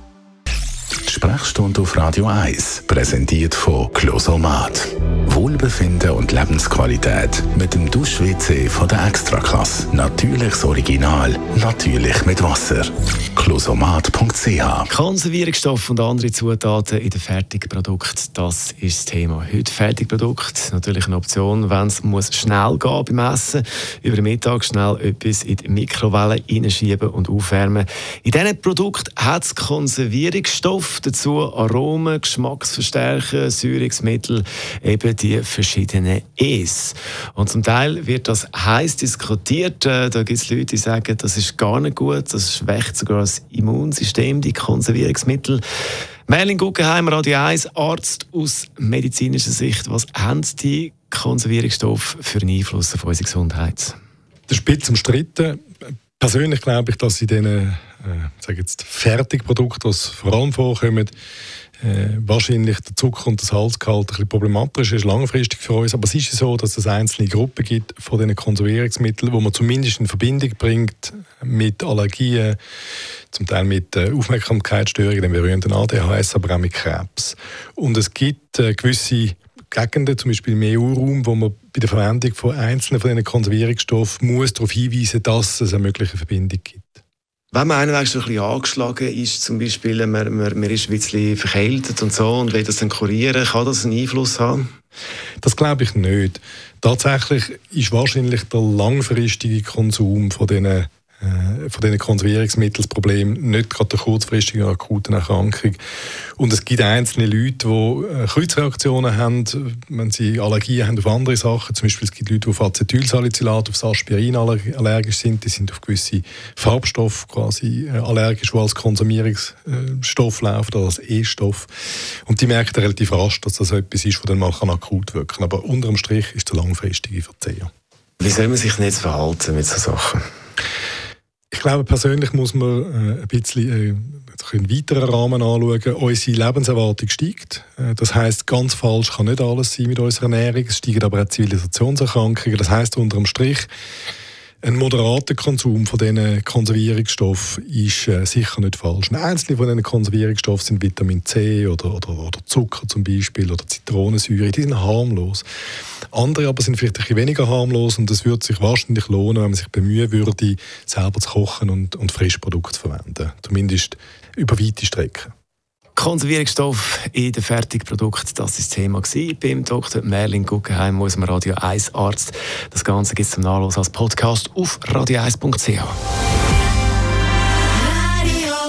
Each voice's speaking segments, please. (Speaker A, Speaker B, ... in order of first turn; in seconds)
Speaker A: 1.1-14.9
Speaker B: 14.9-45.6, 46.3-53.9, 87.5-94.7, 128.2-130.2, 165.9-175.9
Speaker C: 54.5-55.6, 56.2-61.1, 61.8-72.6, 73.3-87.0, 95.4-105.8, 106.4-121.7, 122.2-127.7, 131.5-143.7, 144.6-155.4, 156.1-165.3